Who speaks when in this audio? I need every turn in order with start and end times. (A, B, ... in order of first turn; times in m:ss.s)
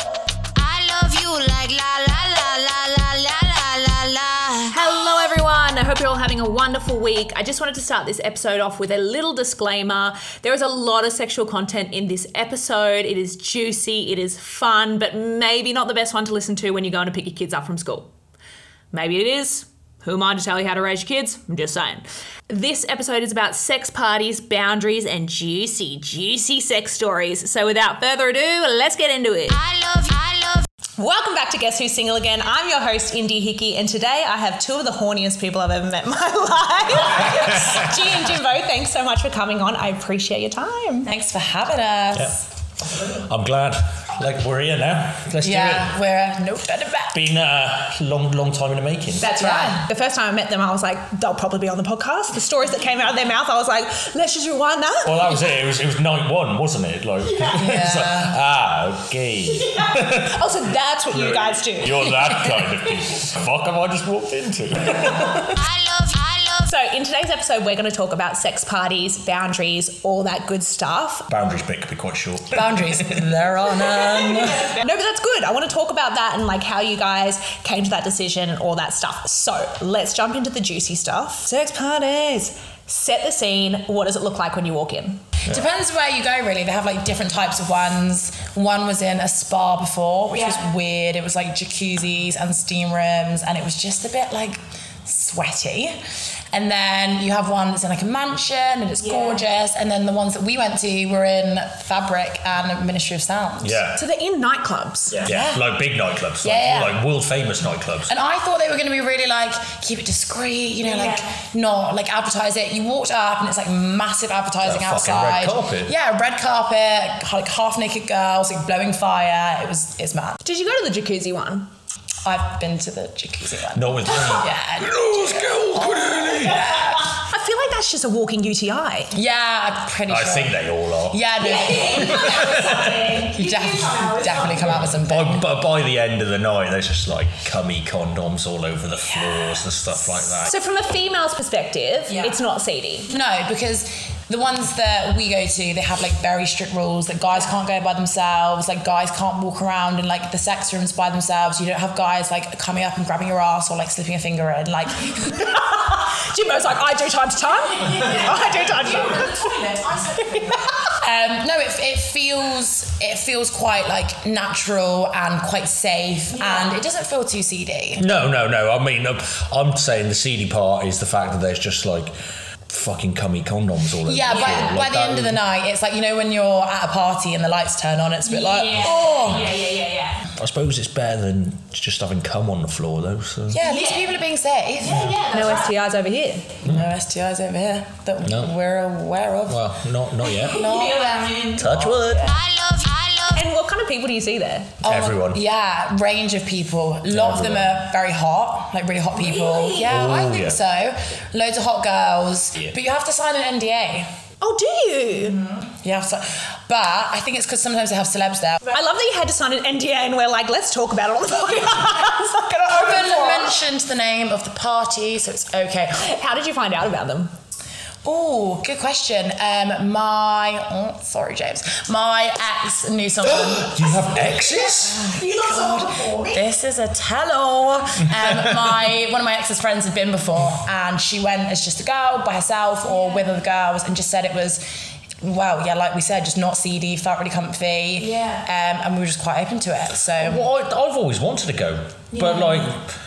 0:01.1-0:04.6 A
0:04.6-0:18.1 B
0:18.9-0:30.2 B
0:31.0-0:41.1 B
0:37.5-0:37.9 C
0:41.0-0:42.4 D
0:42.9-0:45.9 C
0:45.4-0:47.2 D
0:47.1-0:49.3 C
0:49.2-0:55.4 B
0:49.4-0:49.8 D
0:55.0-1:00.4 C
0:57.5-0:58.3 D
0:59.8-1:02.6 B
1:01.1-1:05.7 C
1:05.8-1:11.3 B
1:11.3-1:13.2 C
1:12.5-1:14.7 D
1:14.4-1:25.2 B
1:25.4-1:36.0 D
1:36.5-1:43.8 D
1:39.0-1:39.4 B
1:43.6-1:44.0 C
1:44.0-1:45.3 B
1:45.1-1:48.1 C
1:45.2-1:45.6 D
1:46.4-1:47.0 D
1:48.1-2:00.4 D
1:54.6-1:55.9 C
2:00.4-2:01.7 B
2:02.2-2:07.2 D
2:03.7-2:06.8 C
2:07.1-2:09.1 B
2:09.1-2:15.4 D
2:10.1-2:11.2 C
2:11.4-2:14.6 B
2:11.8-2:13.1 C
2:14.4-2:20.6 C
2:19.1-2:19.4 D
2:20.4-2:23.1 B
2:23.1-2:35.4 D
2:35.3-2:40.7 B
2:38.0-2:48.0 D
2:46.4-2:46.8 B
2:48.0-2:52.1 C
2:52.7-2:55.4 C
2:54.0-2:59.6 D
2:54.3-2:54.7 B
2:58.3-3:00.2 B
2:59.2-2:59.6 C
3:00.4-3:03.6 C
3:03.5-3:05.4 D
3:03.6-3:04.1 B
3:04.8-3:05.2 C
3:04.9-3:06.5 B
3:06.6-3:09.7 D
3:08.2-3:08.5 C
3:09.5-3:10.7 C
3:10.4-3:11.7 B
3:10.4-3:12.4 D
3:11.5-3:12.4 C
3:13.2-3:14.8 B
3:14.8-3:24.1 D
3:14.8-3:15.4 C
3:17.1-3:17.8 C
3:19.2-3:19.8 B
3:19.7-3:20.6 C
3:24.4-3:25.4 B
3:25.4-3:28.7 D
3:28.7-3:33.6 B
3:32.6-3:36.0 D
3:36.0-3:37.3 B
3:38.0-3:44.0 D
3:43.2-3:45.2 C
3:44.7-3:46.4 B
3:45.4-3:54.6 D
3:48.2-3:48.6 C
3:52.9-3:53.3 B
3:55.2-4:00.4 D
3:58.0-3:58.4 B
4:00.2-4:02.9 C
4:02.1-4:02.7 B